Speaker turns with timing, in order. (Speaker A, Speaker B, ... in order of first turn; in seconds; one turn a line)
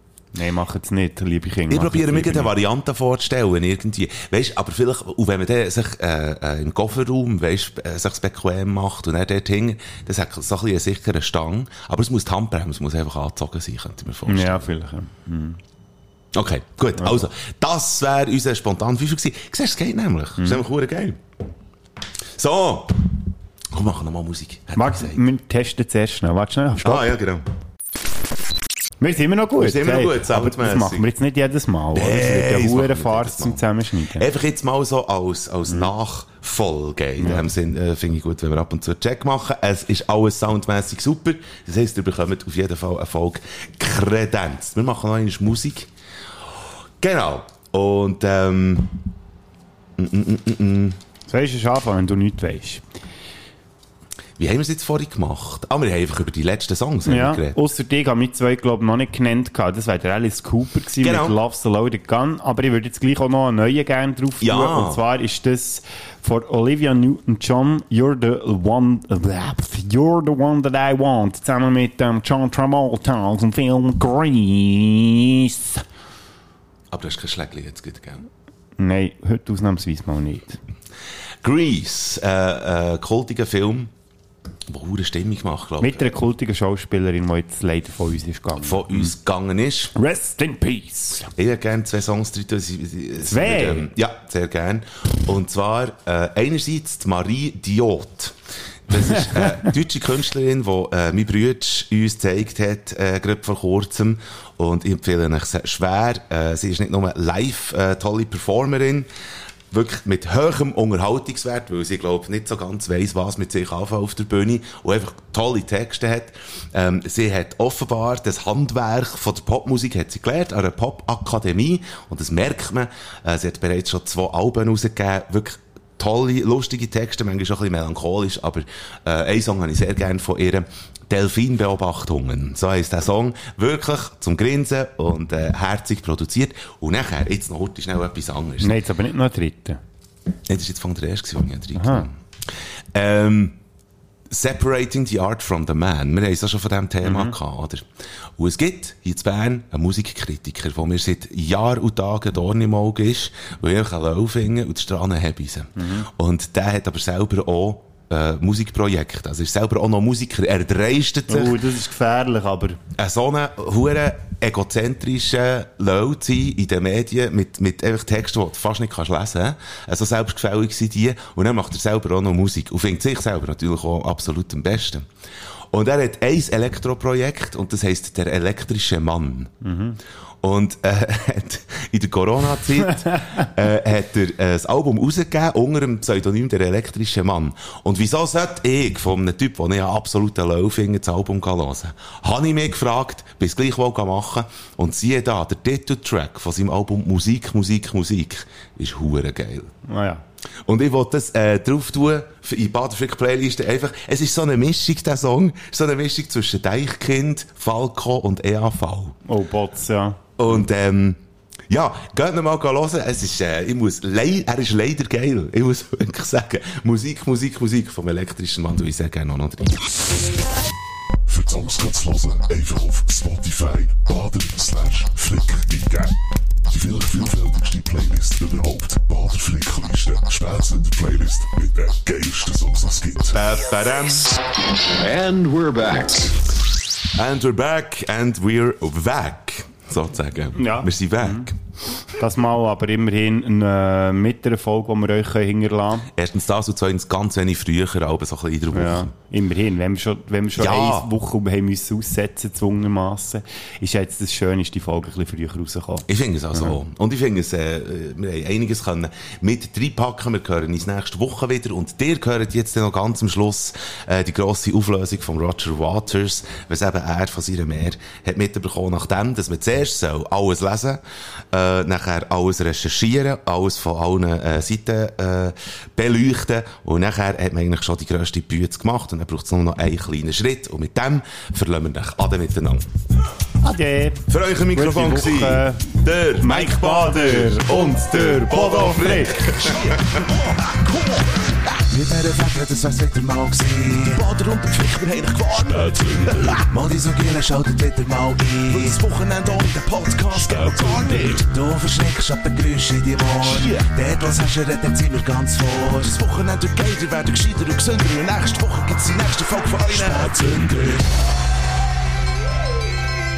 Speaker A: 0.3-2.5
Speaker B: 1.7-14.7
Speaker A: 14.3-15.6
Speaker B: 16.3-21.2
Speaker A: 17.0-17.2
Speaker B: 22.4-23.0
Speaker B: 23.7-25.2
Speaker A: 24.8-27.1
Speaker B: 26.8-27.5
Speaker A: 29.0-34.3
Speaker B: 29.6-31.1
Speaker B: 31.9-33.6
Speaker B: 34.2-45.9
Speaker A: 37.2-37.5
Speaker B: 47.0-49.0
Speaker B: 50.0-51.0
Speaker A: 51.3-52.8
Speaker B: 54.4-57.6
Speaker A: 57.0-75.8
Speaker B: 61.0-61.4
Speaker B: 64.4-65.0
Speaker B: 76.9-78.3
Speaker A: 78.8-80.6
Speaker B: 81.4-83.9
Speaker B: 84.7-86.1
Speaker A: 85.8-89.1
Speaker B: 88.6-90.0
Speaker A: 90.0-91.3
Speaker B: 91.4-98.4
Speaker A: 93.3-93.9
Speaker B: 98.9-109.1
Speaker B: 109.7-138.8
Speaker A: 138.6-139.8
Speaker B: 140.5-142.2
Speaker A: 141.8-142.1
Speaker B: 142.9-143.6
Speaker B: 144.3-147.8
Speaker A: 147.0-147.3
Speaker B: 148.4-161.6
Speaker A: 155.8-156.1
Speaker A: 161.3-162.8
Speaker B: 163.0-175.1
Speaker B: 175.7-179.5
Speaker A: 179.6-180.0
Speaker B: 180.4-199.7
Speaker A: 199.9-200.2
Speaker B: 200.7-209.2
Speaker A: 209.3-210.2
Speaker B: 210.4-211.2
Speaker B: 211.7-220.2
Speaker C: 221.3-226.2
Speaker C: 226.7-233.4
Speaker B: 233.3-234.4
Speaker B: 237.1-241.6
Speaker A: 240.6-241.5
Speaker A: 242.2-246.1
Speaker B: 246.2-249.1
Speaker A: 248.7-256.8
Speaker B: 250.6-251.1
Speaker B: 256.1-271.0
Speaker B: 271.5-282.9
Speaker A: 283.6-284.2
Speaker B: 284.3-290.2
Speaker A: 284.8-289.5
Speaker D: 289.6-310.9
Speaker C: 295.6-296.7
Speaker C: 298.7-299.0
Speaker C: 300.3-301.4
Speaker C: 309.9-311.1